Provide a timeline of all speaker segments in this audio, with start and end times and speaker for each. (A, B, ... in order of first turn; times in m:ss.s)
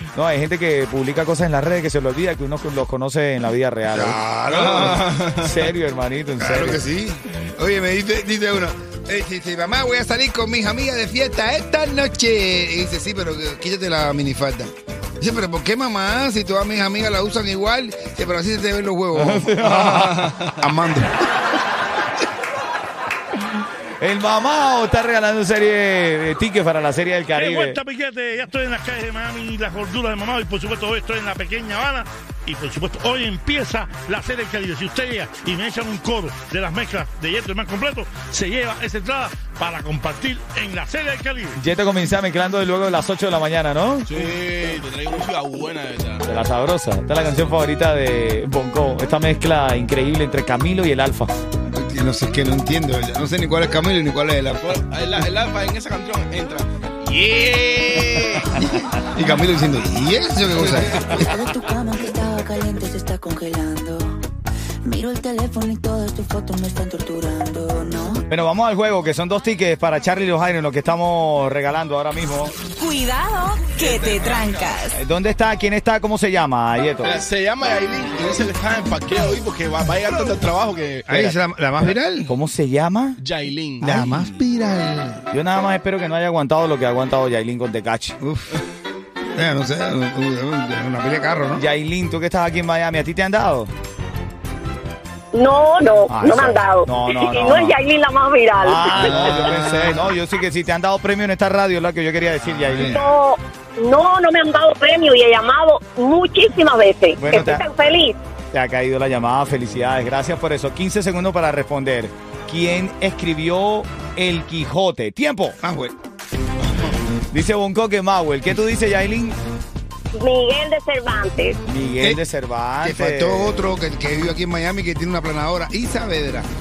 0:00.1-0:04.2 A
0:03.9-0:05.1 B
0:04.5-0:05.5 C
0:05.3-0:06.8 A
0:06.4-0:21.3 B
0:19.1-0:20.3 A
0:24.0-0:27.8 A
0:27.4-0:41.5 D
0:41.6-0:44.3 A
0:44.0-0:46.2 C
0:46.2-0:51.3 A
0:51.7-0:54.7 B
0:54.5-0:58.6 C
0:58.5-1:01.4 B
1:01.3-1:04.0 E
1:02.5-1:04.2 D
1:04.8-1:08.0 E
1:04.9-1:08.1 D
1:08.3-1:12.6 A
1:12.7-1:15.0 E
1:13.8-1:14.7 C
1:14.9-1:17.2 A
1:17.0-1:21.0 C
1:21.1-1:22.3 B
1:21.1-1:23.2 A
1:23.2-1:24.2 C
1:23.8-1:25.2 B
1:25.3-1:28.2 A
1:28.2-1:28.6 B
1:29.3-1:31.6 B
1:31.6-1:33.7 A
1:35.3-1:39.5 F
1:36.1-1:37.8 A
1:38.6-1:43.1 A
1:38.9-1:40.1 B
1:42.4-1:43.0 B
1:42.8-1:48.2 F
1:47.2-1:47.7 A
1:48.5-1:55.6 A
1:55.6-1:55.9 B
1:57.3-1:59.4 A
2:00.1-2:01.6 F
2:01.6-2:03.7 A
2:02.8-2:06.5 B